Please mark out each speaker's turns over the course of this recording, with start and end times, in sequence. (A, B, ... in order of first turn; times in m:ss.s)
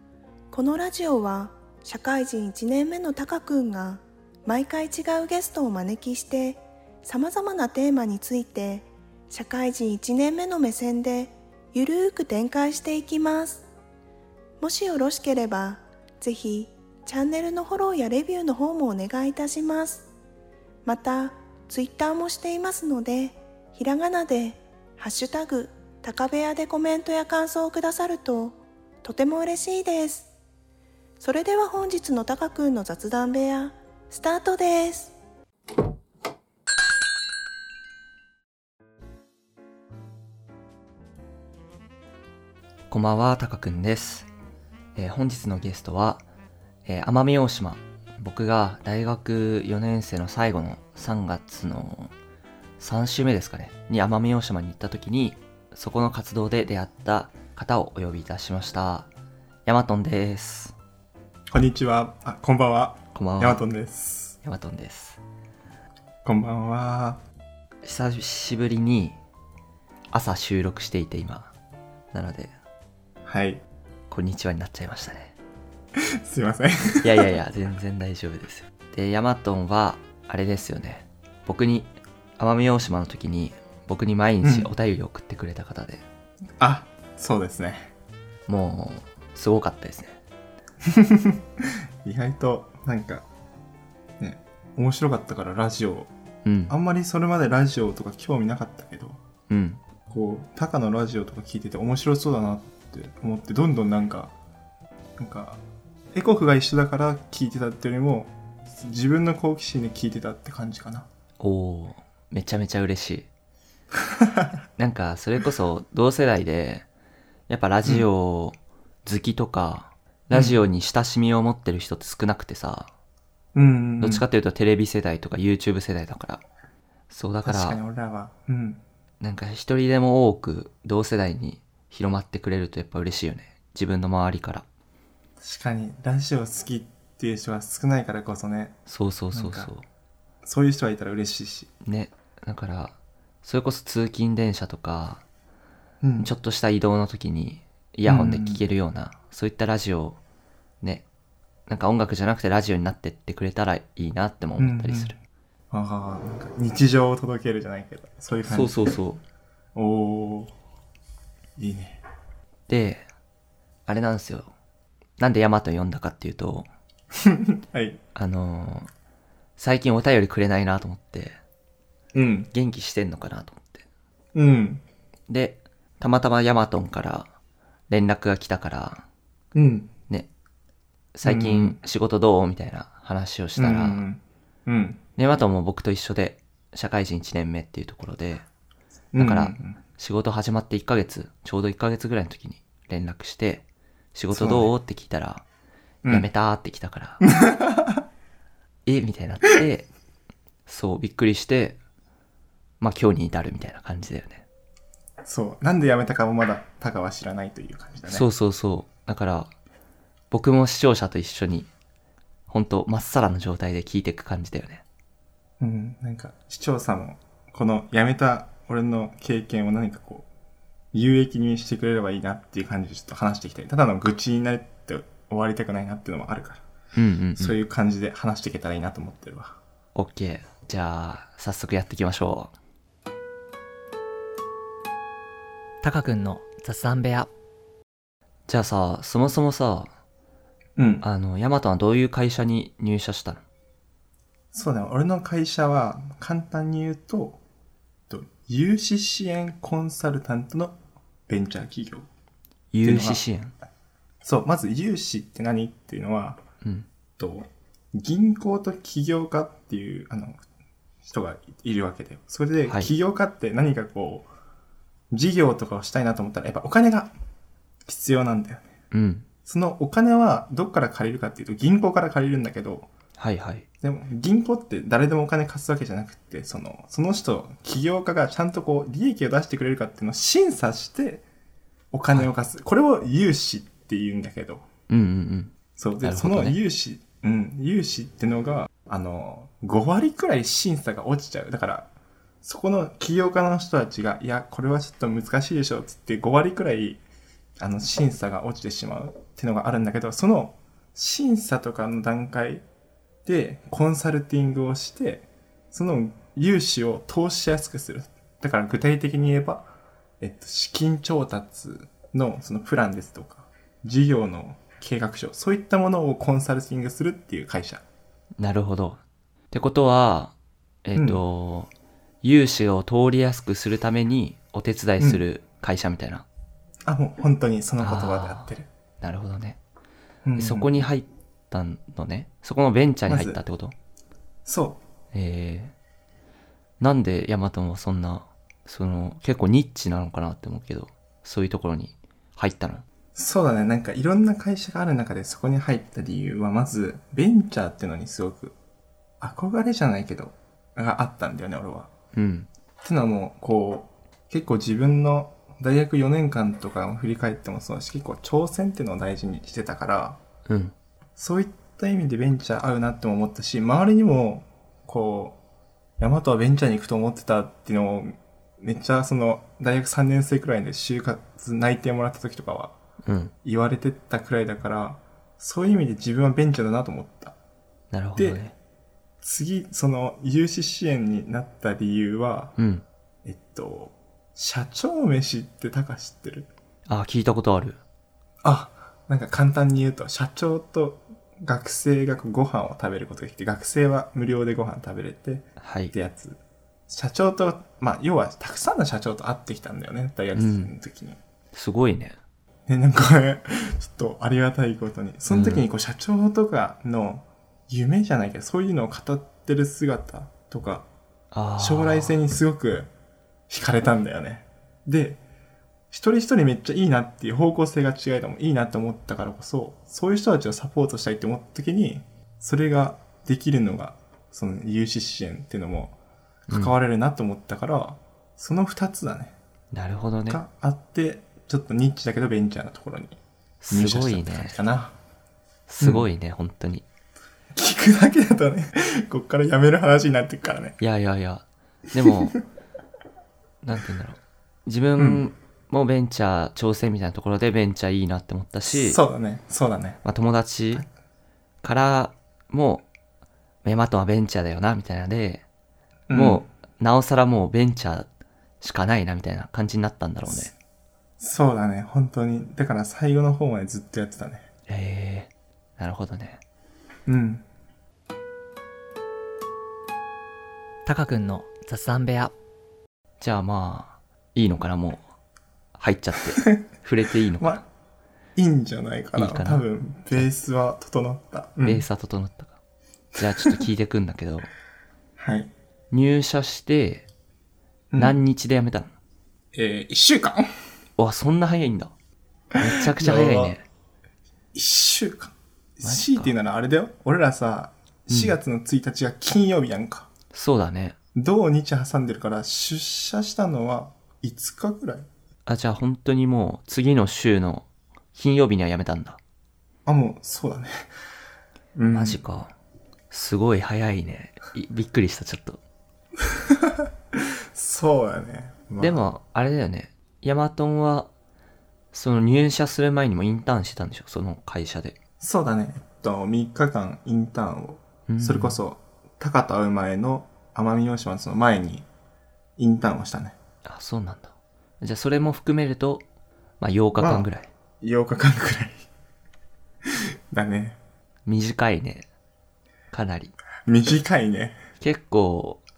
0:00.5-0:13.7 A
0:14.6-0:20.1 A
0:20.8-0:30.3 A
0:31.2-0:35.2 A
0:42.9-0:44.3 B
0:45.0-0:46.2 B
0:46.9-0:52.1 B
0:52.8-0:59.1 B
0:59.7-1:00.7 B
1:01.5-1:04.4 C
1:03.1-1:03.6 B
1:04.4-1:05.2 B
1:06.2-1:07.2 C
1:07.8-1:09.2 B
1:10.1-1:11.5 B
1:12.1-1:12.5 B
1:13.2-1:13.6 C
1:14.1-1:15.4 B
1:16.0-1:17.4 C
1:17.0-1:26.0 B
1:24.4-1:24.7 C
1:26.6-1:27.9 C
1:28.5-1:30.2 B
1:30.8-1:33.3 C
1:34.2-1:36.1 C
1:36.4-1:36.7 B
1:36.7-1:39.2 C
1:39.5-1:39.8 B
1:40.1-1:44.3 C
1:45.2-1:45.6 C
1:46.1-1:51.1 C
1:51.4-1:53.3 B
1:54.2-1:54.5 C
1:54.8-1:56.9 B
1:57.5-2:02.9 B
2:00.3-2:00.6 C
2:03.6-2:04.3 C
2:04.0-2:06.4 B
2:07.1-2:07.8 B
2:07.4-2:08.8 C
2:09.2-2:14.6 B
2:15.4-2:18.8 C
2:18.9-2:19.8 B
2:19.3-2:19.7 C
2:20.4-2:21.7 C
2:21.8-2:25.2 B
2:26.0-2:26.3 C
2:26.2-2:30.2 B
2:28.0-2:28.6 C
2:31.7-2:35.2 B
2:34.6-2:35.2 C
2:35.7-2:38.9 C
2:38.5-2:39.2 B
2:39.8-2:40.5 C
2:41.6-2:42.0 C
2:42.7-2:43.1 B
2:43.9-2:44.5 B
2:45.2-2:46.7 B
2:47.2-2:48.0 C
2:48.2-2:48.9 B
2:49.6-2:51.4 B
2:52.1-2:52.5 C
2:52.5-2:53.8 B
2:54.4-2:54.8 C
2:55.3-2:57.3 B
2:57.9-2:59.0 B
2:59.5-2:59.9 C
3:01.1-3:04.0 B
3:01.2-3:01.8 C
3:03.6-3:05.0 C
3:05.2-3:08.4 B
3:09.1-3:09.8 C
3:09.2-3:13.6 B
3:14.2-3:15.4 B
3:14.3-3:14.7 C
3:16.1-3:17.2 B
3:17.2-3:18.0 C
3:18.9-3:19.9 B
3:20.7-3:21.8 B
3:22.8-3:24.4 B
3:25.2-3:28.2 C
3:28.1-3:29.5 B
3:30.3-3:31.7 B
3:32.5-3:34.8 B
3:35.6-3:40.3 C
3:40.9-3:46.6 C
3:46.9-3:47.6 B
3:47.4-3:49.6 C
3:50.0-3:52.5 B
3:55.8-3:57.3 D
3:58.5-3:59.9 B
4:00.8-4:01.1 C
4:01.0-4:03.4 B
4:04.5-4:07.4 C
4:08.1-4:10.8 C
4:11.3-4:12.1 C
4:12.7-4:13.5 B
4:12.8-4:13.2 C
4:14.2-4:16.4 C
4:17.2-4:20.4 C
4:21.0-4:24.3 C
4:25.1-4:27.1 C
4:27.9-4:28.7 C
4:28.9-4:29.3 B
4:29.4-4:32.9 C
4:33.2-4:33.7 B
4:33.8-4:41.2 C
4:41.9-4:44.6 C
4:44.9-4:46.6 B
4:45.8-4:51.9 C
4:52.4-4:57.0 C
4:57.6-5:02.6 C
5:03.2-5:09.7 C
5:10.2-5:17.8 C
5:18.4-5:19.0 B
5:19.5-5:20.3 B
5:20.8-5:21.7 B
5:21.0-5:21.2 C
5:22.2-5:26.2 B
5:26.8-5:28.7 C
5:27.8-5:28.5 B
5:29.0-5:29.6 B
5:30.2-5:30.7 C
5:30.4-5:33.7 B
5:33.1-5:33.4 C
5:34.5-5:34.8 C
5:35.1-5:35.7 B
5:36.8-5:42.8 B
5:43.2-5:48.6 C
5:49.2-5:51.9 C
5:52.1-5:52.5 B
5:52.8-6:00.2 C
6:00.5-6:00.7 B
6:01.2-6:05.4 C
6:06.0-6:12.8 C
6:13.1-6:13.3 B
6:13.4-6:17.4 C
6:17.9-6:18.5 B
6:18.2-6:18.4 C
6:19.2-6:22.6 C
6:22.6-6:22.8 B
6:23.2-6:26.5 C
6:26.9-6:27.8 B
6:28.4-6:36.4 C
6:35.6-6:35.9 B
6:36.9-6:41.2 C
6:40.4-6:40.7 B
6:41.5-6:42.2 B
6:42.7-6:50.9 C
6:45.3-6:45.6 B
6:51.3-6:52.2 B
6:51.6-6:52.9 C
6:53.5-6:55.2 C
6:55.9-7:06.0 C
7:06.5-7:06.8 B
7:06.5-7:09.4 C
7:09.7-7:10.4 B
7:10.3-7:13.2 C
7:13.6-7:14.6 B
7:13.7-7:15.0 C
7:15.7-7:16.8 B
7:15.8-7:16.1 C
7:17.5-7:20.8 C
7:20.8-7:22.4 B
7:23.6-7:29.0 B
7:25.0-7:25.3 C
7:28.7-7:30.0 C
7:30.0-7:30.9 B
7:31.6-7:32.8 B
7:33.6-7:35.4 B
7:36.1-7:36.4 C
7:36.1-7:38.1 B
7:38.6-7:40.5 B
7:41.2-7:44.5 C
7:44.7-7:46.4 B
7:47.1-7:47.4 C
7:50.8-7:52.3 D
7:53.2-7:55.0 B
7:55.8-7:57.6 B
7:58.4-8:01.9 C
7:59.1-8:00.3 B
8:01.6-8:02.6 B
8:03.2-8:04.5 B
8:05.2-8:05.5 C
8:05.9-8:07.1 B
8:07.9-8:08.2 C
8:08.0-8:08.9 B
8:09.5-8:10.5 C
8:11.0-8:11.9 B
8:12.6-8:13.6 B
8:12.6-8:13.6 C
8:14.5-8:20.1 C
8:15.8-8:16.3 B
8:18.1-8:18.4 B
8:20.3-8:21.0 B
8:21.2-8:25.1 C
8:25.5-8:29.2 B
8:29.9-8:30.9 C
8:31.8-8:32.2 C
8:31.9-8:32.5 B
8:33.1-8:35.6 B
8:36.3-8:39.0 C
8:38.8-8:41.1 B
8:41.9-8:45.0 B
8:45.2-8:51.9 C
8:48.1-8:48.6 B
8:52.6-8:53.4 C
8:53.6-8:56.0 B
8:56.6-8:57.5 B
8:57.0-8:57.3 C
8:57.8-8:58.9 C
8:59.9-9:00.8 C
9:01.3-9:02.1 B
9:02.9-9:03.4 B
9:03.7-9:04.6 C
9:04.8-9:05.6 B